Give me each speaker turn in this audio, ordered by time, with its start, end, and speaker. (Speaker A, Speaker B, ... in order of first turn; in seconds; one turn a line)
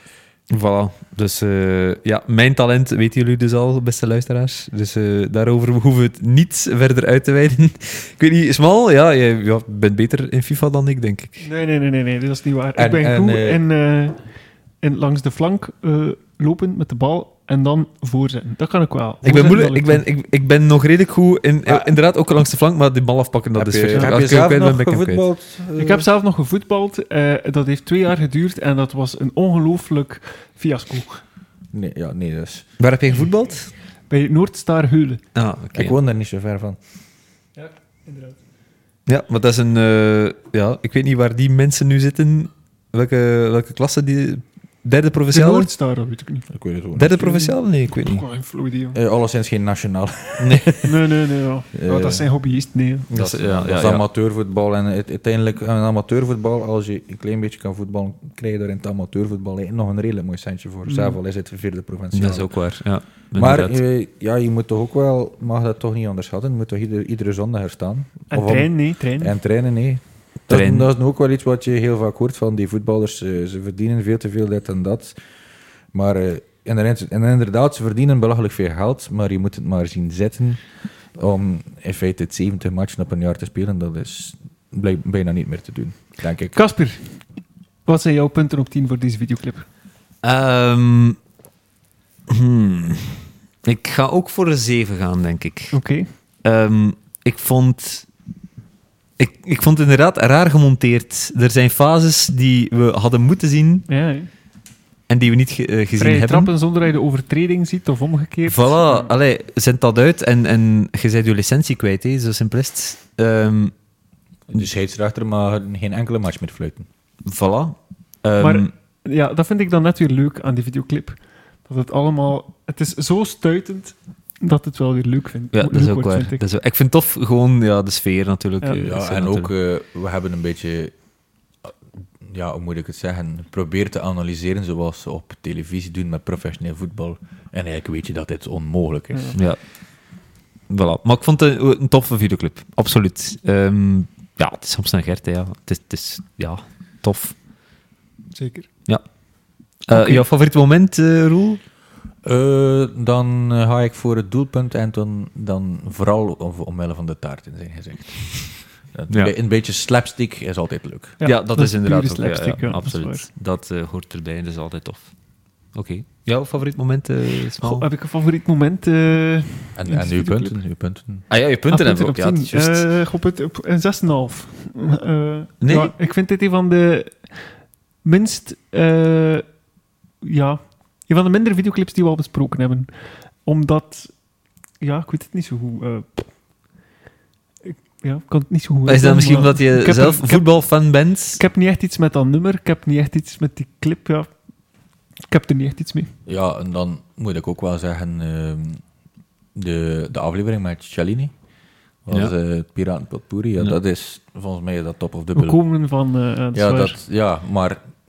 Speaker A: 0.5-11.4
Speaker B: 11.4-20.1
Speaker C: 12.8-13.6
Speaker A: 19.2-25.2
Speaker C: 21.7-21.9
Speaker C: 23.6-26.1
Speaker B: 23.9-24.2
Speaker B: 25.8-31.2
Speaker C: 31.7-32.7
Speaker A: 32.8-33.7
Speaker B: 34.1-35.2
Speaker A: 35.4-36.0
Speaker C: 35.7-36.8
Speaker B: 37.6-38.4
Speaker A: 39.1-45.7
Speaker B: 45.3-46.5
Speaker C: 46.5-47.3
Speaker A: 47.0-48.2
Speaker B: 47.1-49.0
Speaker C: 48.9-51.1
Speaker B: 50.8-53.1
Speaker C: 51.7-52.3
Speaker A: 53.1-54.0
Speaker C: 53.1-62.5
Speaker B: 60.9-61.2
Speaker A: 62.1-63.8
Speaker C: 63.4-75.2
Speaker B: 68.3-69.3
Speaker A: 70.5-70.9
Speaker C: 75.9-80.6
Speaker C: 81.1-86.6
Speaker B: 86.5-87.2
Speaker B: 87.9-89.7
Speaker A: 90.2-91.2
Speaker A: 92.3-95.8
Speaker B: 95.7-96.1
Speaker A: 96.4-98.1
Speaker A: 99.2-103.9
Speaker B: 103.9-104.3
Speaker A: 105.1-106.5
Speaker B: 106.0-109.1
Speaker A: 108.5-113.7
Speaker C: 114.5-116.9
Speaker A: 117.3-118.7
Speaker B: 118.4-126.4
Speaker A: 125.5-129.5
Speaker C: 128.8-130.9
Speaker C: 131.6-139.4
Speaker B: 139.1-139.4
Speaker A: 140.7-147.3
Speaker B: 148.3-148.7
Speaker A: 149.8-151.6
Speaker B: 149.9-150.2
Speaker C: 152.2-161.2
Speaker B: 161.2-163.3
Speaker A: 161.2-165.1
Speaker A: 165.7-167.9
Speaker B: 167.6-170.5
Speaker C: 169.7-171.3
Speaker A: 171.3-172.9
Speaker B: 171.7-177.5
Speaker A: 175.6-175.9
Speaker B: 178.0-179.5
Speaker B: 180.2-184.1
Speaker B: 184.8-186.3
Speaker B: 187.6-194.3
Speaker A: 188.9-191.4
Speaker B: 195.3-196.1
Speaker C: 196.3-198.8
Speaker C: 199.6-201.3
Speaker C: 202.1-205.6
Speaker B: 205.3-207.0
Speaker C: 206.5-207.8